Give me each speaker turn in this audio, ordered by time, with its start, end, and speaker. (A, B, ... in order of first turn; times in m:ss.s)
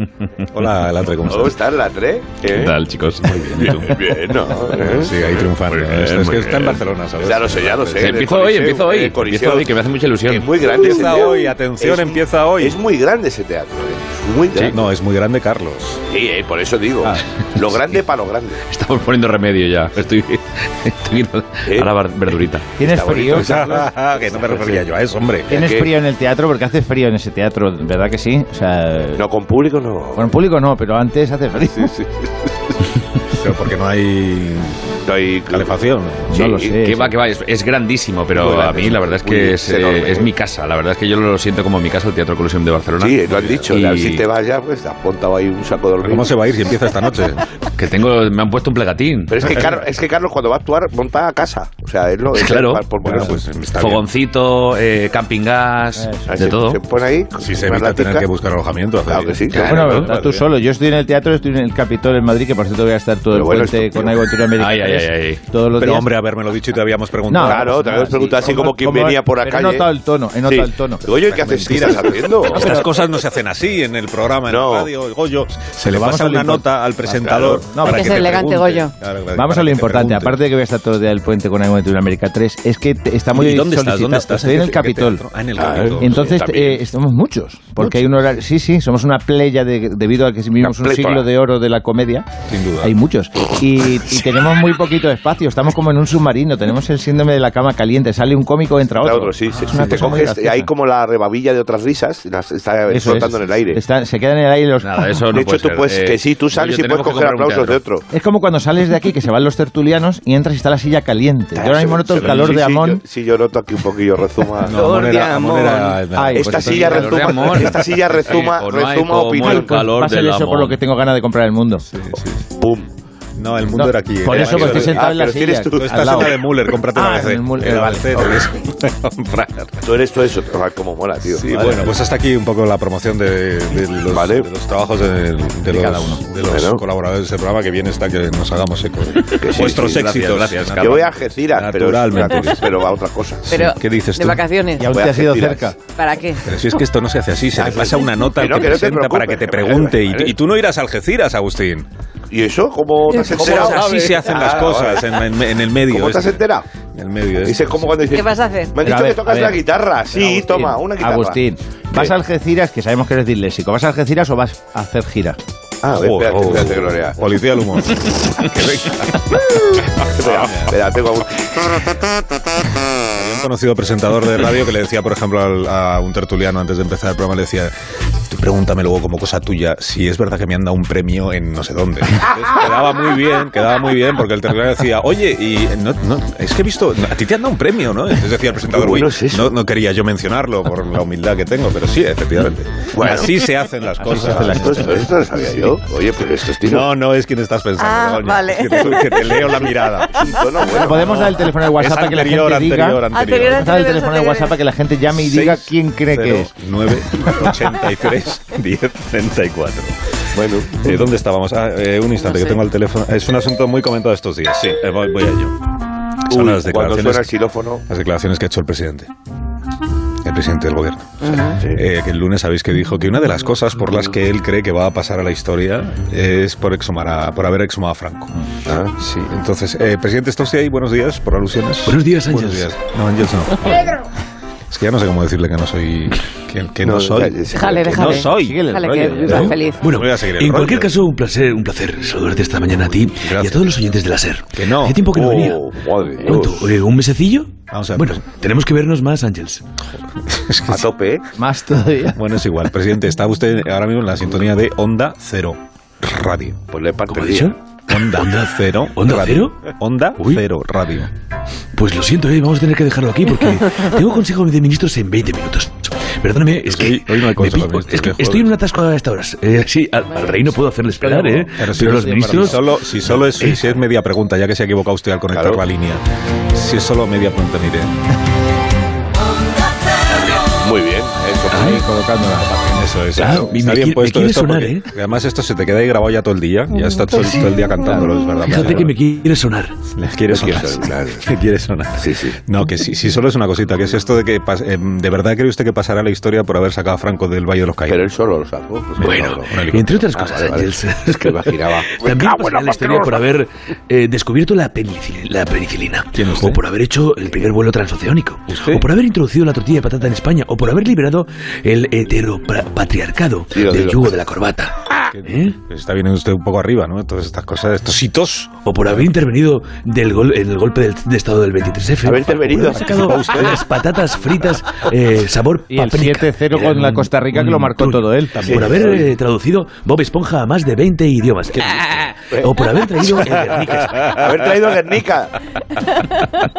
0:00.5-0:01.6 A
0:01.2-0:02.8 B
0:02.4-0:04.1 C
0:03.4-0:05.2 B
0:04.8-0:08.2 A
0:05.4-0:06.8 C
0:07.2-0:14.8 B
0:08.0-0:10.5 C
0:10.7-0:12.8 A
0:14.6-0:16.0 A
0:16.1-0:18.6 B
0:18.7-0:22.7 C
0:21.6-0:24.9 B
0:22.8-0:23.5 D
0:23.3-0:25.5 A
0:25.5-0:25.9 B
0:25.5-0:29.2 D
0:29.2-0:30.4 B
0:30.1-0:31.9 D
0:31.8-0:32.3 B
0:33.3-0:34.9 A
0:35.0-0:35.8 B
0:35.5-0:36.4 A
0:36.3-0:37.1 D
0:36.3-0:36.8 B
0:36.8-0:44.3 C
0:38.3-0:40.3 B
0:43.0-0:46.5 B
0:46.0-0:47.4 A
0:47.8-0:49.4 C
0:49.3-0:53.3 B
0:52.3-0:52.8 E
0:53.0-0:54.0 A
0:53.7-0:56.8 C
0:56.0-0:56.3 D
0:56.3-0:58.3 B
0:57.4-1:00.5 A
0:59.0-1:00.1 B
0:59.7-1:06.1 D
1:03.3-1:04.3 B
1:04.5-1:05.4 C
1:05.7-1:07.8 A
1:07.3-1:12.9 D
1:07.4-1:09.9 B
1:10.4-1:12.8 B
1:11.4-1:20.4 A
1:14.5-1:14.9 B
1:15.8-1:16.6 D
1:17.0-1:17.7 B
1:17.7-1:18.3 D
1:17.8-1:18.9 F
1:19.3-1:25.2 D
1:23.3-1:26.4 A
1:25.6-1:26.8 B
1:26.0-1:32.3 D
1:27.8-1:28.1 A
1:30.6-1:31.3 B
1:32.5-1:32.9 A
1:32.8-1:40.7 D
1:39.0-1:43.8 B
1:42.9-1:45.2 D
1:44.8-1:47.8 C
1:45.3-1:48.0 B
1:48.1-1:53.0 D
1:51.5-1:55.1 B
1:54.6-1:57.2 A
1:55.0-1:55.8 C
1:56.1-1:57.4 D
1:56.3-1:59.8 B
1:56.6-2:00.7 C
1:59.4-2:01.8 D
2:01.9-2:02.4 A
2:02.5-2:02.9 B
2:03.4-2:05.1 A
2:03.7-2:06.4 D
2:04.2-2:06.4 B
2:05.7-2:09.8 A
2:06.9-2:08.4 D
2:09.8-2:11.8 B
2:11.3-2:22.7 A
2:11.6-2:11.9 D
2:14.1-2:14.4 B
2:15.7-2:16.2 D
2:16.5-2:16.8 B
2:19.3-2:20.1 B
2:19.7-2:21.1 C
2:20.8-2:23.5 B
2:23.4-2:24.4 A
2:23.5-2:24.9 F
2:24.8-2:25.8 D
2:24.9-2:25.7 B
2:25.9-2:26.5 F
2:26.4-2:31.9 A
2:27.5-2:30.3 B
2:32.3-2:35.1 B
2:33.3-2:36.4 A
2:33.4-2:34.2 C
2:35.9-2:36.6 B
2:36.9-2:38.1 A
2:37.4-2:41.4 B
2:38.1-2:38.8 F
2:38.8-2:39.6 D
2:40.1-2:45.4 D
2:45.8-2:47.2 B
2:45.9-2:49.4 A
2:50.0-2:51.9 B
2:50.2-2:50.7 A
2:53.1-2:57.7 A
2:58.3-3:15.1 A
3:08.7-3:09.6 B
3:12.9-3:13.5 B
3:14.1-3:16.9 B
3:14.1-3:15.6 D
3:16.6-3:20.4 A
3:17.8-3:19.3 F
3:18.7-3:21.3 B
3:20.7-3:26.5 D
3:20.9-3:23.7 A
3:23.1-3:24.6 F
3:25.1-3:30.0 A
3:30.3-3:31.0 B
3:30.8-3:35.6 A
3:32.2-3:32.6 F
3:36.2-3:37.3 A
3:36.3-3:37.8 B
3:37.9-3:39.1 A
3:40.2-3:48.3 A
3:41.2-3:41.6 F
3:41.6-3:41.8 B
3:48.6-3:48.9 B
3:48.9-3:54.0 A
3:51.8-3:52.7 E
3:54.7-4:00.9 A
3:56.8-3:58.2 B
3:57.5-3:59.8 F
3:58.1-3:59.6 D
3:59.3-4:09.6 E
4:03.2-4:03.7 A
4:04.5-4:05.1 A
4:05.0-4:06.7 B
4:07.7-4:08.2 A
4:10.2-4:10.9 A
4:10.7-4:11.2 B
4:11.3-4:12.2 D
4:12.1-4:16.6 A
4:16.7-4:17.5 B
4:17.1-4:19.6 E
4:17.9-4:21.1 A
4:20.2-4:20.4 E
4:21.7-4:33.6 E
4:26.6-4:28.5 A
4:31.0-4:32.6 D
4:31.6-4:37.9 A
4:35.3-4:35.6 B
4:40.1-4:40.5 E
4:40.6-4:41.8 B
4:41.5-4:41.8 E
4:41.5-4:42.5 D
4:42.6-4:49.0 A
4:43.2-4:44.9 E
4:48.4-4:49.7 E
4:49.9-4:58.1 A
4:50.3-4:51.2 B
4:52.0-4:52.4 B
4:57.9-4:59.6 B
4:59.0-5:15.6 E
4:59.1-5:00.4 A
5:00.1-5:03.2 B
5:06.2-5:06.6 A
5:08.5-5:08.9 A
5:13.5-5:14.2 B
5:15.1-5:18.6 A
5:18.6-5:34.2 E
5:22.0-5:22.9 B
5:22.8-5:23.6 A
5:25.7-5:28.4 D
5:28.3-5:29.0 A
5:28.4-5:29.1 B
5:34.0-5:35.3 B